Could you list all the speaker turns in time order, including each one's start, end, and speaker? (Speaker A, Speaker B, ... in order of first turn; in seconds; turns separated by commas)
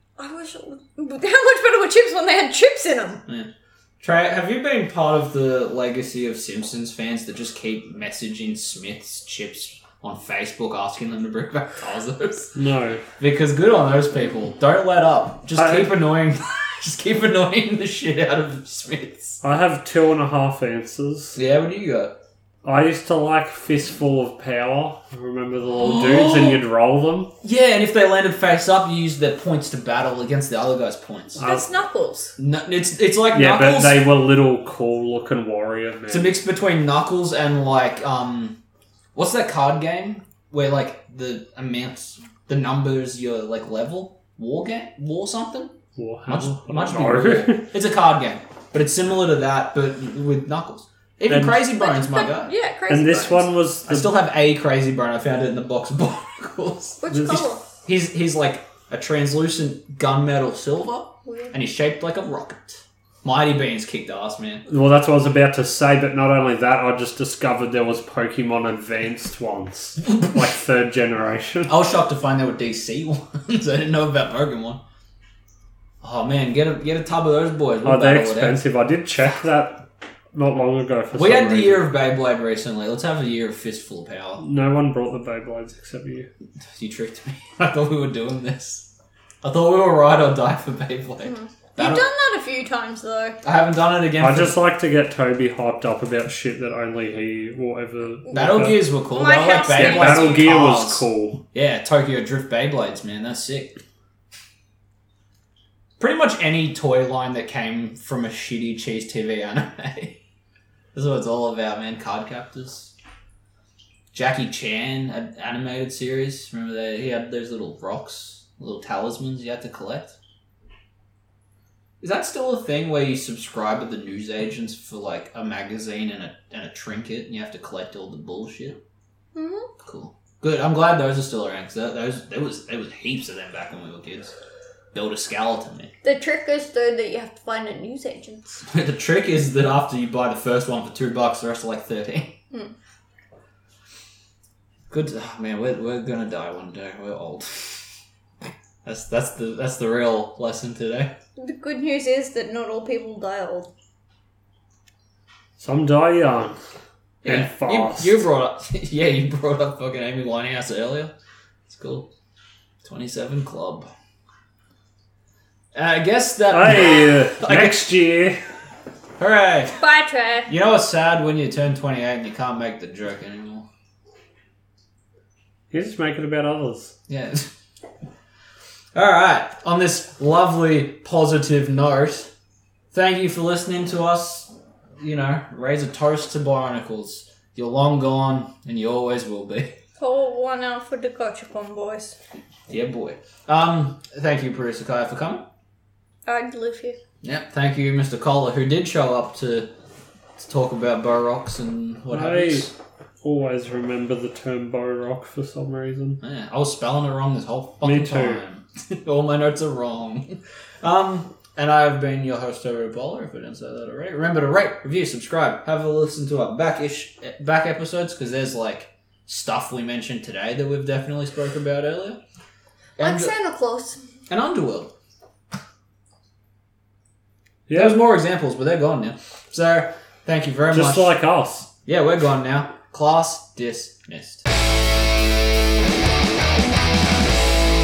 Speaker A: 0.2-3.2, Speaker B: 3.3-12.6, Speaker C: 12.6-13.0, Speaker B: 13.2-19.4, Speaker C: 15.5-16.0, Speaker C: 19.4-21.4, Speaker B: 21.4-22.1, Speaker C: 22.6-27.3, Speaker B: 25.8-26.6, Speaker B: 27.4-31.6, Speaker A: 31.4-32.4, Speaker B: 32.4-34.0, Speaker C: 33.3-36.4, Speaker B: 36.1-38.6, Speaker B: 39.1-45.8, Speaker C: 46.0-47.6, Speaker B: 46.3-52.5, Speaker C: 51.3-51.6, Speaker A: 51.8-53.5, Speaker C: 52.9-54.1, Speaker B: 53.9-64.6, Speaker A: 57.0-57.6, Speaker C: 57.1-57.4, Speaker A: 61.2-61.5, Speaker C: 64.7-71.7, Speaker B: 71.7-74.8, Speaker B: 76.0-78.6, Speaker C: 77.8-81.9, Speaker B: 81.1-84.4, Speaker C: 84.4-86.3, Speaker B: 86.7-88.9, Speaker B: 89.4-92.0, Speaker A: 91.2-93.4, Speaker B: 93.4-94.6, Speaker C: 94.2-98.9, Speaker B: 98.3-103.8, Speaker A: 99.1-100.5, Speaker C: 99.7-101.4, Speaker B: 106.0-110.2, Speaker B: 110.9-112.9, Speaker B: 114.1-120.2, Speaker B: 122.0-128.8, Speaker A: 129.3-129.7, Speaker B: 129.8-134.3, Speaker B: 134.9-135.9, Speaker A: 136.0-138.6, Speaker B: 138.7-142.3, Speaker B: 144.9-147.8, Speaker B: 148.8-151.1, Speaker A: 151.4-153.7, Speaker C: 155.6-156.6, Speaker C: 157.2-158.2, Speaker B: 157.2-161.1, Speaker B: 161.7-162.1, Speaker B: 162.8-163.9, Speaker B: 165.8-167.9, Speaker C: 166.5-168.4, Speaker B: 169.2-169.8, Speaker A: 169.8-170.5, Speaker B: 170.5-173.7, Speaker C: 175.7-176.9, Speaker B: 177.1-177.5, Speaker B: 178.9-182.3, Speaker B: 182.9-189.7, Speaker A: 190.0-192.2, Speaker B: 192.7-195.5, Speaker A: 196.3-197.0, Speaker B: 197.2-199.7, Speaker B: 200.4-202.7, Speaker C: 202.1-202.7, Speaker C: 203.2-206.2, Speaker B: 206.2-222.2, Speaker C: 207.8-208.4, Speaker B: 223.0-223.3, Speaker A: 223.0-224.0, Speaker B: 224.3-224.9, Speaker C: 227.7-228.0, Speaker B: 227.7-231.1, Speaker C: 230.7-231.7, Speaker B: 231.9-234.5